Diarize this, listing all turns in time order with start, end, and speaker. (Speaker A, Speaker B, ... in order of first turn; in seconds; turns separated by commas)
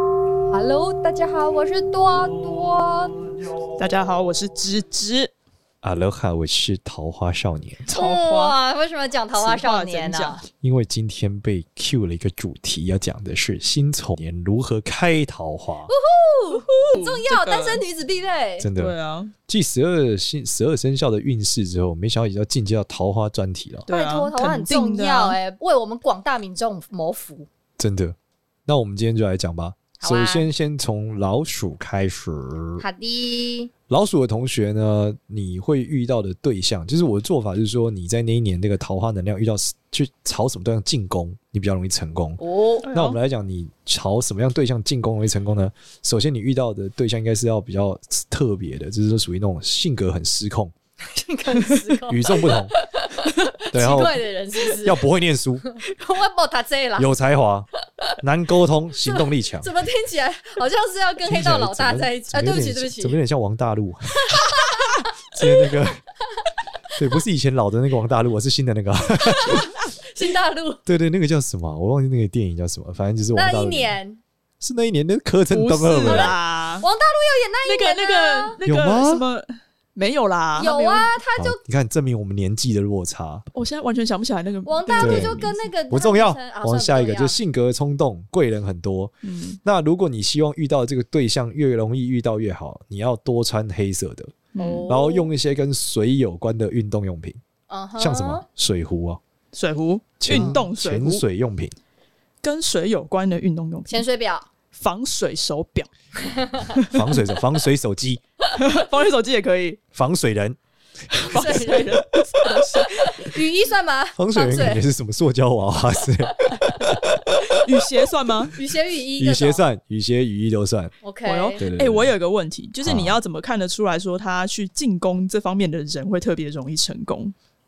Speaker A: 0.5-3.3, Speaker B: 3.8-5.3, Speaker C: 5.8-7.8, Speaker B: 7.8-8.6, Speaker A: 7.9-10.4, Speaker B: 9.3-10.4, Speaker C: 10.6-15.9, Speaker A: 15.9-18.7, Speaker B: 16.7-17.8, Speaker C: 18.6-18.9, Speaker B: 18.7-19.3, Speaker C: 19.5-23.9, Speaker B: 23.9-25.4, Speaker A: 23.9-27.5, Speaker C: 27.8-28.1, Speaker C: 28.7-32.8, Speaker A: 30.0-30.4, Speaker A: 32.8-33.7, Speaker C: 33.9-42.4, Speaker A: 42.4-42.9, Speaker B: 42.8-43.2, Speaker C: 42.9-50.7, Speaker A: 51.1-55.0, Speaker C: 52.1-52.7, Speaker C: 53.7-55.6, Speaker A: 55.6-57.2, Speaker C: 57.0-57.7, Speaker C: 58.2-59.7, Speaker A: 59.0-63.2, Speaker C: 61.2-66.0, Speaker A: 64.2-65.8, Speaker C: 67.0-69.8, Speaker A: 69.2-70.8, Speaker C: 70.8-74.0, Speaker A: 73.3-74.2, Speaker C: 74.6-76.3, Speaker B: 75.5-76.8, Speaker A: 76.0-78.6, Speaker B: 77.6-81.1, Speaker C: 78.6-79.2, Speaker A: 80.6-81.6, Speaker C: 81.4-83.5, Speaker B: 83.5-85.5, Speaker A: 84.7-87.3, Speaker C: 85.0-97.4, Speaker B: 89.2-89.6, Speaker B: 94.5-94.9, Speaker A: 94.6-95.3, Speaker A: 97.7-98.4, Speaker C: 98.0-99.2, Speaker B: 99.5-101.2, Speaker C: 100.2-101.7, Speaker B: 102.4-104.0, Speaker A: 103.9-104.5, Speaker B: 104.7-105.9, Speaker A: 106.2-106.7, Speaker B: 106.7-107.0, Speaker C: 106.9-108.2, Speaker B: 108.5-109.8, Speaker C: 109.9-110.6, Speaker B: 111.1-113.3, Speaker A: 111.3-114.8, Speaker C: 114.2-117.6, Speaker B: 117.6-118.5, Speaker A: 118.5-119.6, Speaker C: 119.2-120.9, Speaker A: 121.0-121.6, Speaker B: 121.2-127.3, Speaker C: 121.6-122.1, Speaker C: 122.8-123.2